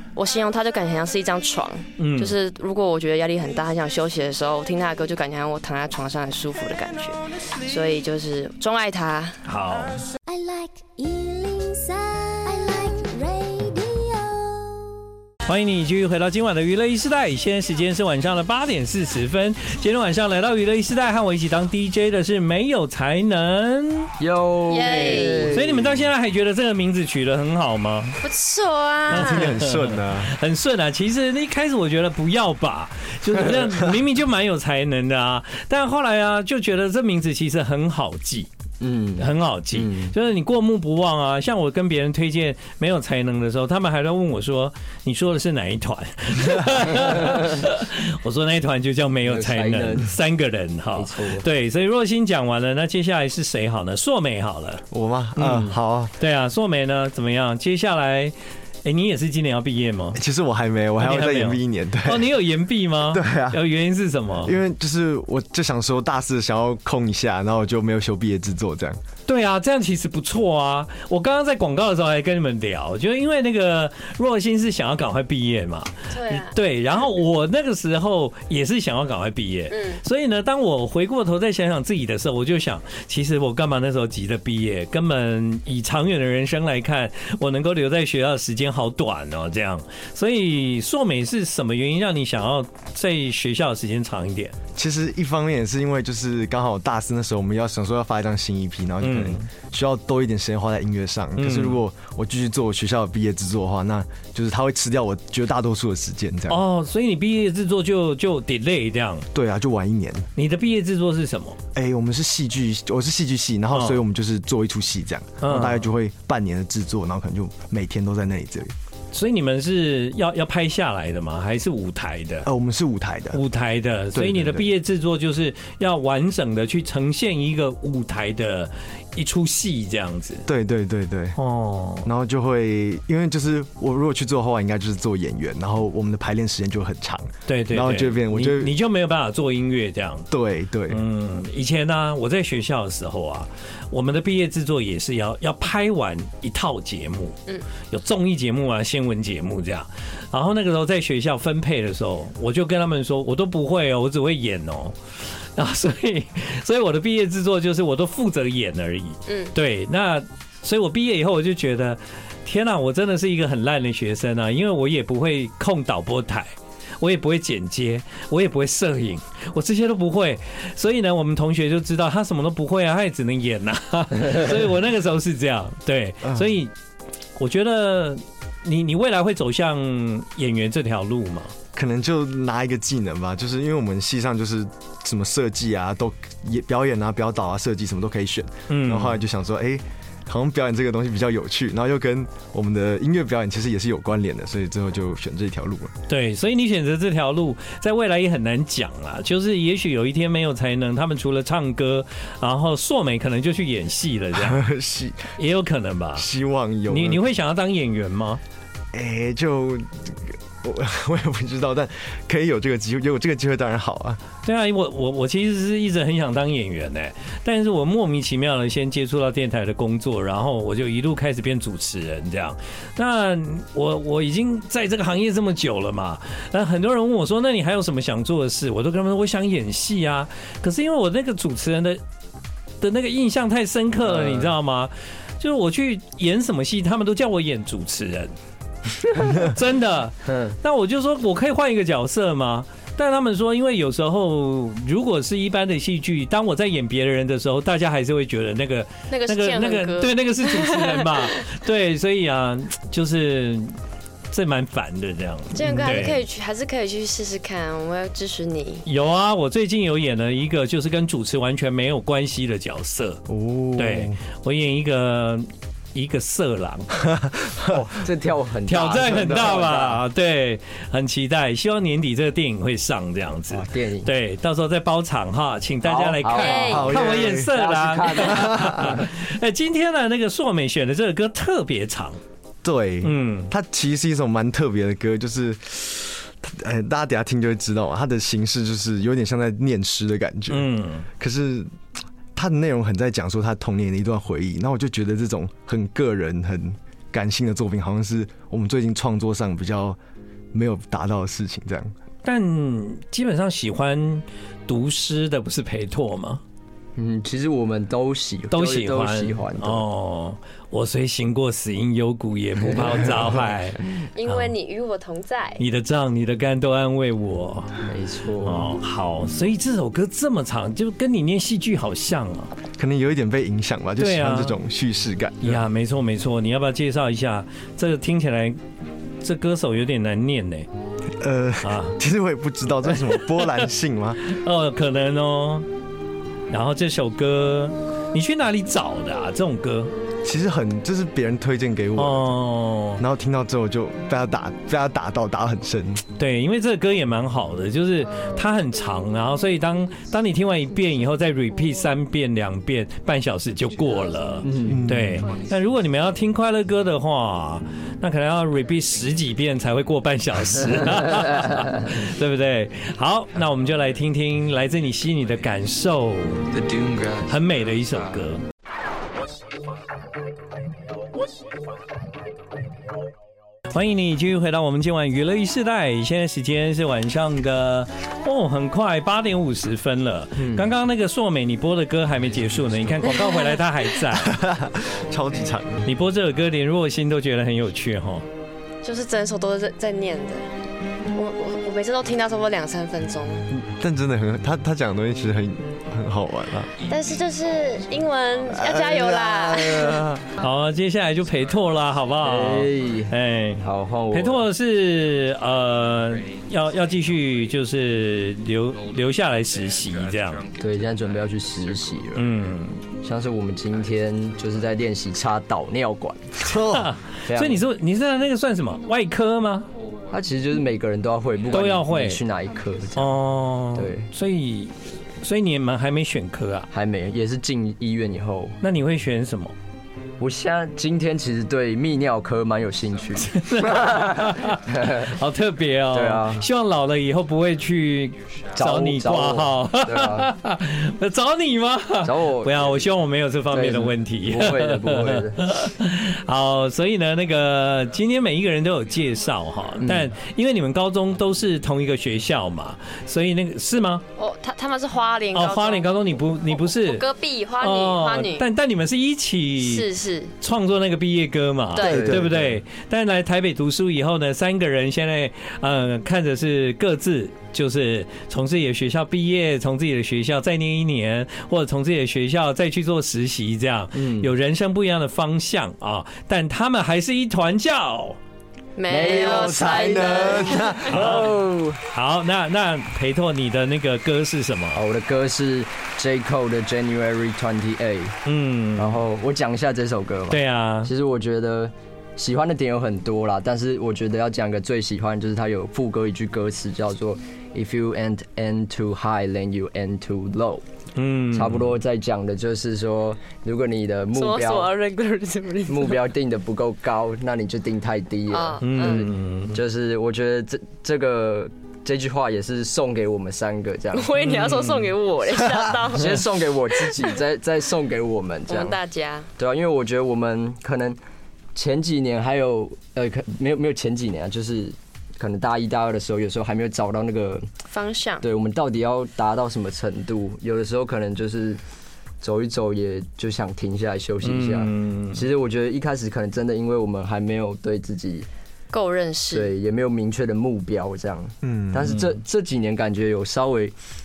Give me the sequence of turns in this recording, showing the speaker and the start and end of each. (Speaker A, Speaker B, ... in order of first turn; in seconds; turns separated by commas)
Speaker A: 0.1-9.4, Speaker B: 2.0-2.3, Speaker B: 9.4-10.0, Speaker C: 10.3-14.4, Speaker D: 10.7-11.1, Speaker D: 11.9-13.1, Speaker D: 14.3-14.9, Speaker B: 15.4-24.1, Speaker D: 24.2-26.0, Speaker A: 24.7-25.6, Speaker B: 24.8-28.2, Speaker A: 28.2-29.5, Speaker E: 29.1-30.3, Speaker B: 29.1-38.5, Speaker D: 38.8-40.1, Speaker B: 39.2-54.8, Speaker D: 49.2-50.1, Speaker D: 50.9-51.5, Speaker E: 54.9-56.1, Speaker B: 55.4-60.2, Speaker E: 60.1-62.3, Speaker B: 61.0-64.5, Speaker E: 63.1-63.6, Speaker E: 64.4-69.0, Speaker B: 69.3-94.5, Speaker A: 76.1-76.5, Speaker A: 79.7-80.0, Speaker E: 94.8-106.6, Speaker B: 99.0-99.5, Speaker B: 101.3-101.8, Speaker B: 106.5-109.2, Speaker E: 109.3-110.2, Speaker B: 110.3-111.6, Speaker E: 111.7-118.7, Speaker B: 113.7-114.0, Speaker B: 115.4-115.8, Speaker B: 119.1-122.5, Speaker E: 122.4-123.4, Speaker B: 123.3-130.4, Speaker E: 124.1-124.7, Speaker E: 130.5-131.4, Speaker B: 131.4-132.1, Speaker E: 132.0-138.7, Speaker B: 137.4-140.2, Speaker E: 140.3-141.0, Speaker B: 140.9-154.9, Speaker B: 155.6-176.7, Speaker A: 159.3-159.5, Speaker E: 176.2-176.5, Speaker B: 177.3-181.5, Speaker E: 181.7-195.9, Speaker B: 188.7-189.2, Speaker B: 196.1-204.6, Speaker E: 204.3-205.3, Speaker B: 205.4-206.3, Speaker E: 206.2-207.2, Speaker B: 206.9-208.4, Speaker E: 208.9-214.2, Speaker B: 214.4-232.0, Speaker B: 232.8-238.3, Speaker D: 234.1-234.5, Speaker B: 239.1-253.8, Speaker D: 240.2-240.6, Speaker A: 249.1-251.4, Speaker B: 254.3-256.2, Speaker A: 255.5-258.8, Speaker E: 255.6-256.0, Speaker B: 258.8-263.2, Speaker E: 263.3-264.2, Speaker B: 263.8-266.9, Speaker E: 267.0-267.9, Speaker D: 267.7-270.0, Speaker B: 268.7-282.2, Speaker E: 269.0-269.5, Speaker D: 273.5-274.1, Speaker D: 275.8-279.1, Speaker A: 276.3-277.0, Speaker E: 276.7-277.5, Speaker E: 278.1-279.0, Speaker E: 282.6-291.7, Speaker B: 283.0-283.5, Speaker B: 290.5-291.1, Speaker E: 292.3-300.0, Speaker E: 300.5-301.9, Speaker B: 302.2-306.4, Speaker D: 306.9-309.8, Speaker B: 308.5-314.5, Speaker D: 312.7-313.1, Speaker A: 314.1-315.6, Speaker B: 315.6-317.8, Speaker D: 317.8-318.7, Speaker B: 318.4-322.5, Speaker E: 322.8-325.6, Speaker B: 324.0-324.6, Speaker B: 325.4-328.6, Speaker B: 329.2-330.6, Speaker E: 331.2-334.2, Speaker B: 331.6-332.0, Speaker B: 333.1-333.6, Speaker B: 334.2-335.7, Speaker B: 336.5-339.9, Speaker E: 340.2-342.4, Speaker B: 342.0-343.0, Speaker E: 343.0-346.0, Speaker B: 346.2-366.6, Speaker F: 348.2-352.0, Speaker F: 353.7-356.4, Speaker D: 354.4-354.8, Speaker E: 354.6-355.2, Speaker F: 358.5-359.9, Speaker F: 360.6-361.2, Speaker F: 364.5-365.6, Speaker F: 366.6-367.1, Speaker B: 367.2-368.4, Speaker B: 373.7-384.4, Speaker D: 380.4-380.6, Speaker F: 383.0-383.4, Speaker A: 383.0-383.3, Speaker E: 384.1-385.8, Speaker B: 385.8-388.2, Speaker A: 388.8-390.5, Speaker A: 391.1-393.5, Speaker E: 393.5-396.7, Speaker A: 396.9-400.0, Speaker F: 398.3-398.7, Speaker E: 398.5-400.2, Speaker B: 400.4-410.4, Speaker F: 401.2-402.4, Speaker D: 402.2-404.5, Speaker F: 405.7-407.6, Speaker F: 408.9-412.6, Speaker D: 410.6-412.3, Speaker B: 412.1-412.8, Speaker D: 413.0-416.2, Speaker F: 413.7-414.8, Speaker E: 416.4-416.9, Speaker B: 416.5-419.7, Speaker D: 417.3-417.6, Speaker F: 419.6-420.1, Speaker D: 420.1-423.1, Speaker F: 421.4-421.7, Speaker B: 421.5-422.2, Speaker F: 422.7-423.2, Speaker B: 422.9-426.7, Speaker D: 423.7-424.1, Speaker D: 426.7-428.6, Speaker B: 428.6-429.5, Speaker D: 430.2-435.1, Speaker F: 433.1-434.8, Speaker B: 433.2-454.0, Speaker D: 435.9-436.4, Speaker F: 438.1-439.7, Speaker D: 438.6-440.3, Speaker D: 442.0-442.9, Speaker D: 443.5-445.4, Speaker F: 447.7-450.0, Speaker D: 449.8-450.1, Speaker F: 451.2-451.8, Speaker A: 454.1-455.9, Speaker B: 455.3-457.0, Speaker A: 456.5-458.4, Speaker B: 457.6-459.9, Speaker A: 459.6-460.3, Speaker B: 460.4-478.2, Speaker A: 461.7-462.1, Speaker E: 461.8-462.6, Speaker D: 461.8-462.5, Speaker D: 473.9-474.3, Speaker A: 478.8-480.7, Speaker D: 478.9-481.8, Speaker E: 479.2-481.3, Speaker B: 480.9-481.3, Speaker B: 481.9-484.8, Speaker D: 484.7-488.2, Speaker B: 488.2-489.0, Speaker D: 488.8-500.6, Speaker B: 490.3-490.9, Speaker B: 500.9-501.7, Speaker D: 501.3-504.7, Speaker A: 504.1-506.0, Speaker D: 505.7-514.2, Speaker A: 508.3-509.1, Speaker B: 508.6-509.6, Speaker A: 513.9-517.2, Speaker B: 514.2-514.9, Speaker D: 515.9-518.8, Speaker A: 518.5-519.3, Speaker D: 519.4-521.0, Speaker D: 521.5-527.5, Speaker A: 527.7-528.2, Speaker D: 528.2-531.6, Speaker D: 532.2-538.3, Speaker B: 534.2-535.2, Speaker A: 538.7-539.5, Speaker D: 539.3-543.7, Speaker E: 541.4-541.9, Speaker B: 541.9-542.1